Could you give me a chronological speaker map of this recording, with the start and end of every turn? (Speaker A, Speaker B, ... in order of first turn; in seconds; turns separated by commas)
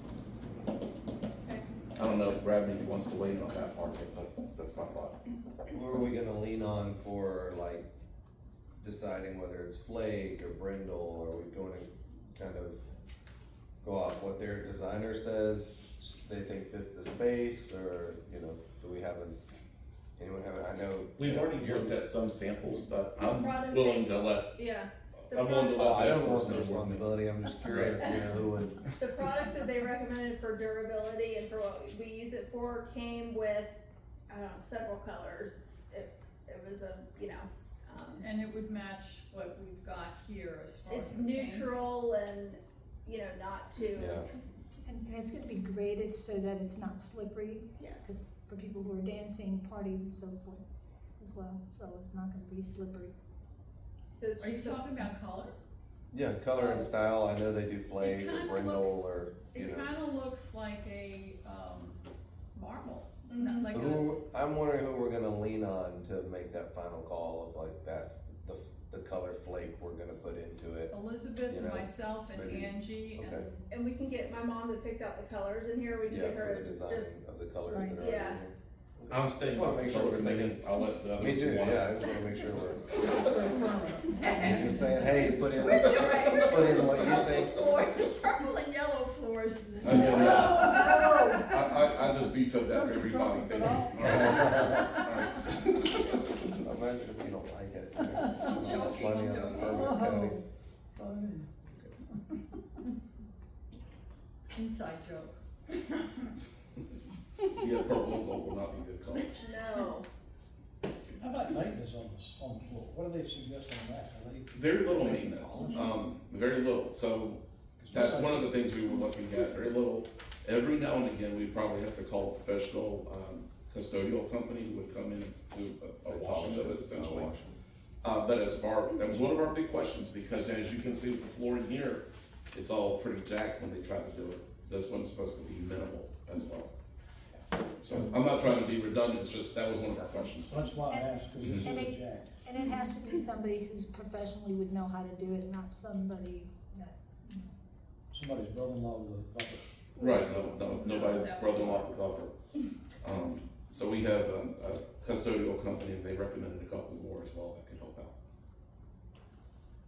Speaker A: 1.9-5.2, Speaker B: 5.7-7.8, Speaker B: 8.8-12.8, Speaker B: 13.8-19.4, Speaker B: 20.2-21.9, Speaker A: 21.2-24.5, Speaker C: 23.2-25.8, Speaker A: 25.3-27.1, Speaker B: 25.8-28.8, Speaker A: 27.6-28.1, Speaker C: 29.0-38.2, Speaker D: 38.2-41.8, Speaker C: 40.9-44.3, Speaker B: 43.9-44.2, Speaker E: 44.8-50.6, Speaker C: 47.8-48.1, Speaker E: 51.2-53.1, Speaker C: 54.1-54.8, Speaker D: 54.4-55.5, Speaker B: 56.1-59.9, Speaker D: 56.5-56.9, Speaker D: 58.0-62.0, Speaker D: 62.5-64.1, Speaker C: 63.3-63.7, Speaker B: 63.7-70.9, Speaker D: 70.9-73.7, Speaker B: 71.4-73.5, Speaker C: 73.7-77.1, Speaker B: 76.0-80.6, Speaker E: 77.7-78.0, Speaker C: 78.0-78.4, Speaker A: 79.1-82.0, Speaker B: 81.2-83.0, Speaker E: 83.0-84.7, Speaker D: 84.3-91.3, Speaker B: 84.4-87.7, Speaker E: 89.8-92.1, Speaker A: 89.8-96.1, Speaker E: 92.7-94.8, Speaker B: 94.0-94.7, Speaker D: 94.6-95.0, Speaker B: 96.6-100.4, Speaker D: 98.4-99.9, Speaker E: 99.7-100.4, Speaker F: 101.0-101.5, Speaker D: 104.5-105.4, Speaker A: 107.5-109.4, Speaker C: 109.4-110.0, Speaker F: 111.2-115.7, Speaker A: 114.5-127.3, Speaker F: 117.8-118.7, Speaker B: 126.1-127.5, Speaker A: 128.0-136.7, Speaker A: 137.8-140.6, Speaker F: 140.4-142.4, Speaker E: 140.8-147.5, Speaker F: 148.1-149.6, Speaker A: 150.0-152.3, Speaker E: 150.0-150.6, Speaker D: 150.5-151.9, Speaker A: 153.0-158.1